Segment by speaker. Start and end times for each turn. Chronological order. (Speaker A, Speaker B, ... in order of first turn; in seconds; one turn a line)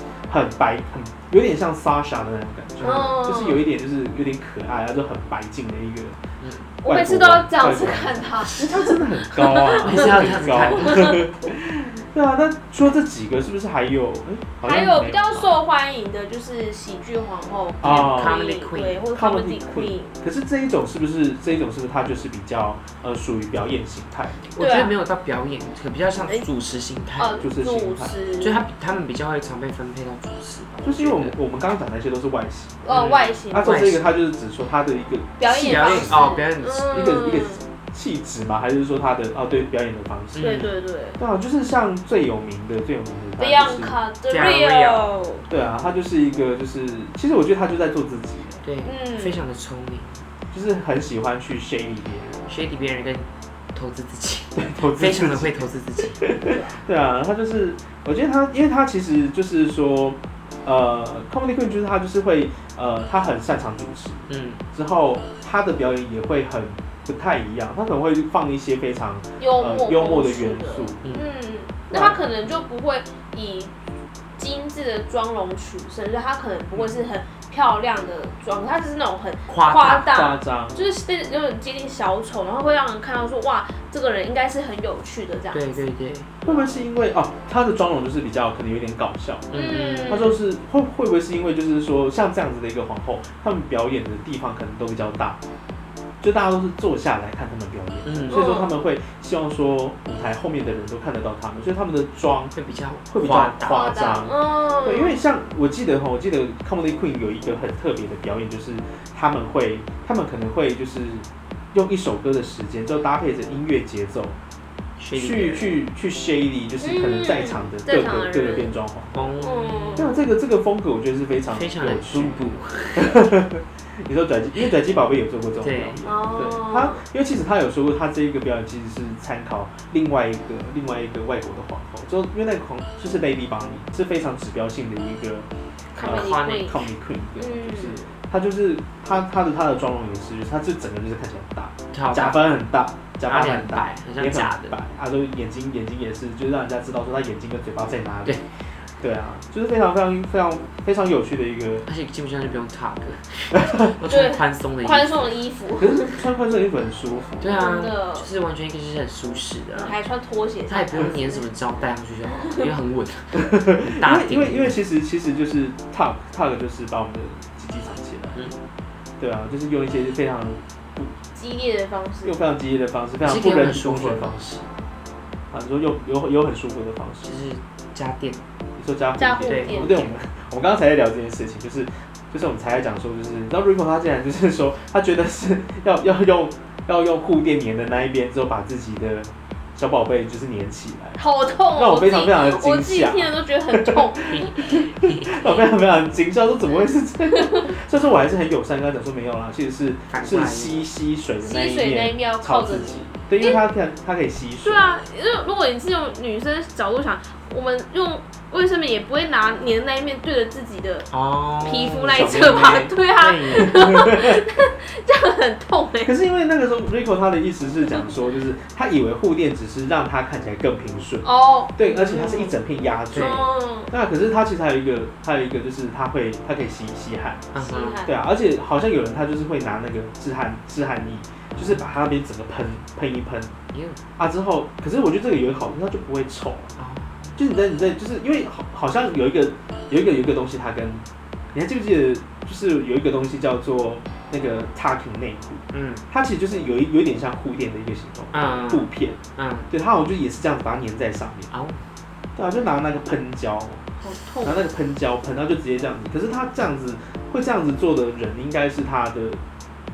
Speaker A: 0.3-6.2
Speaker B: 2.8-3.6
Speaker C: 6.4-6.7
Speaker B: 6.8-11.2
Speaker A: 6.8-15.6
Speaker C: 9.8-11.2
Speaker B: 14.6-20.1
Speaker A: 17.8-18.4
Speaker C: 17.8-19.1
Speaker A: 19.1-24.6
Speaker C: 24.5-27.4
Speaker B: 24.6-25.0
Speaker B: 27.2-28.6
Speaker A: 27.4-28.2
Speaker C: 28.4-31.4
Speaker A: 30.8-32.9
Speaker B: 32.8-33.9
Speaker C: 32.9-34.0
Speaker A: 33.5-36.3
Speaker B: 35.4-37.7
Speaker C: 35.5-37.3
Speaker A: 36.9-40.7
Speaker C: 40.3-40.7
Speaker B: 40.4-41.2
Speaker A: 41.2-44.0
Speaker B: 43.4-45.5
Speaker C: 44.3-45.1
Speaker A: 45.5-48.6
Speaker C: 48.6-50.2
Speaker B: 48.8-49.5
Speaker A: 50.5-52.5
Speaker C: 52.5-56.4
Speaker A: 54.6-55.7
Speaker A: 56.2-71.0
Speaker B: 56.5-56.8
Speaker C: 64.3-64.6
Speaker B: 69.4-73.7
Speaker C: 71.0-71.3
Speaker A: 71.9-72.2
Speaker B: 74.4-85.8
Speaker C: 79.5-80.2
Speaker A: 80.0-80.8
Speaker C: 85.5-86.4
Speaker A: 86.5-95.4
Speaker C: 89.5-90.4
Speaker B: 89.5-90.4
Speaker A: 96.2-102.5
Speaker C: 98.0-98.5
Speaker B: 98.3-98.8
Speaker C: 102.5-104.2
Speaker A: 103.1-114.4
Speaker B: 103.6-105.2
Speaker C: 115.0-115.8
Speaker A: 115.1-119.2
Speaker B: 116.8-118.8
Speaker C: 119.1-120.1
Speaker B: 119.4-120.2
Speaker A: 120.0-135.5
Speaker C: 121.5-123.2
Speaker C: 125.6-126.0
Speaker B: 126.0-127.0
Speaker B: 135.9-138.1
Speaker C: 136.0-136.8
Speaker A: 136.0-148.4
Speaker C: 141.9-142.4
Speaker C: 143.2-144.8
Speaker A: 149.0-151.9
Speaker C: 151.8-155.4
Speaker B: 154.1-156.2
Speaker A: 155.8-157.6
Speaker C: 157.4-160.0
Speaker B: 157.5-158.3
Speaker B: 159.7-161.5
Speaker C: 160.7-164.8
Speaker B: 162.3-162.7
Speaker A: 163.3-168.5
Speaker A: 169.2-171.1
Speaker B: 171.3-172.4
Speaker A: 172.2-174.4
Speaker C: 173.2-174.7
Speaker A: 175.5-177.3
Speaker C: 177.2-178.4
Speaker A: 178.8-191.2
Speaker B: 179.2-180.0
Speaker C: 179.5-180.2
Speaker B: 191.2-194.8
Speaker A: 191.7-204.9
Speaker C: 194.3-195.6
Speaker B: 197.3-197.7
Speaker C: 200.1-200.8
Speaker B: 201.4-203.6
Speaker B: 204.6-211.1
Speaker C: 211.1-213.9
Speaker B: 211.6-216.1
Speaker A: 212.1-212.9
Speaker A: 213.5-214.4
Speaker A: 216.1-227.5
Speaker B: 221.2-222.6
Speaker C: 223.1-223.5
Speaker B: 223.1-223.9
Speaker C: 227.5-228.0
Speaker B: 227.6-228.2
Speaker A: 228.1-233.5
Speaker C: 231.5-231.9
Speaker C: 233.7-234.0
Speaker A: 234.2-236.8
Speaker C: 236.8-237.4
Speaker A: 237.4-251.5
Speaker C: 245.7-246.0
Speaker C: 248.3-249.7
Speaker C: 251.5-251.8
Speaker A: 252.4-253.9
Speaker B: 254.0-254.6
Speaker A: 254.4-259.4